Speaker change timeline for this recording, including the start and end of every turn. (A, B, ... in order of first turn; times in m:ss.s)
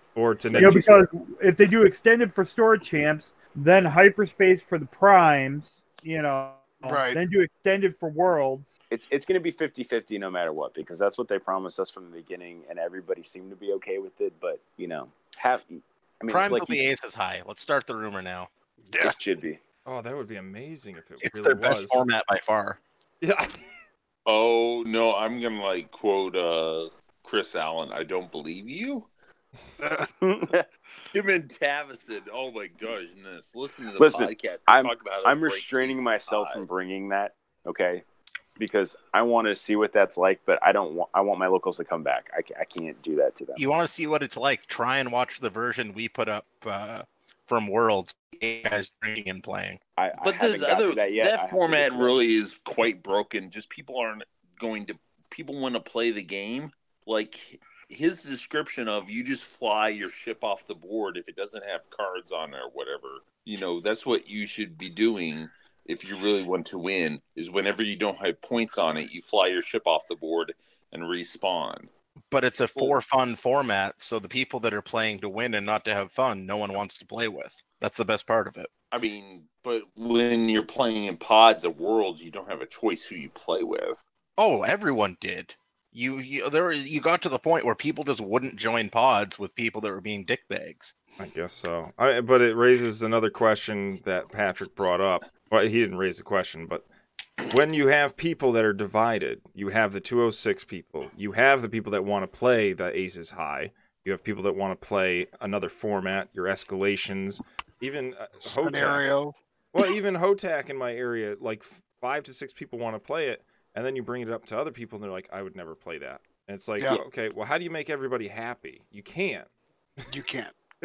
0:00.2-0:01.0 A
0:00.5-0:08.7 B
0:06.8-0:07.2 C
0:08.9-0:16.8 D
0:16.3-0:18.5 E
0:18.9-0:19.2 C
0:19.0-0:19.6 D
0:19.8-0:22.0 A
0:21.2-0:22.8 E
0:23.2-0:23.6 A
0:24.2-0:29.1 F
0:29.8-0:30.1 C
0:30.2-0:30.7 D
0:31.1-0:36.6 F
0:34.0-0:38.0 D
0:38.6-0:43.6 D
0:43.6-0:49.8 E
0:50.0-0:52.4 D
0:50.2-1:11.9 F
1:12.3-1:18.7 E
1:18.9-1:24.0 F
1:24.4-1:30.9 E
1:31.2-1:36.8 A
1:37.5-1:49.0 A
1:48.4-1:49.3 C
1:49.7-1:59.5 A
2:00.1-2:00.5 C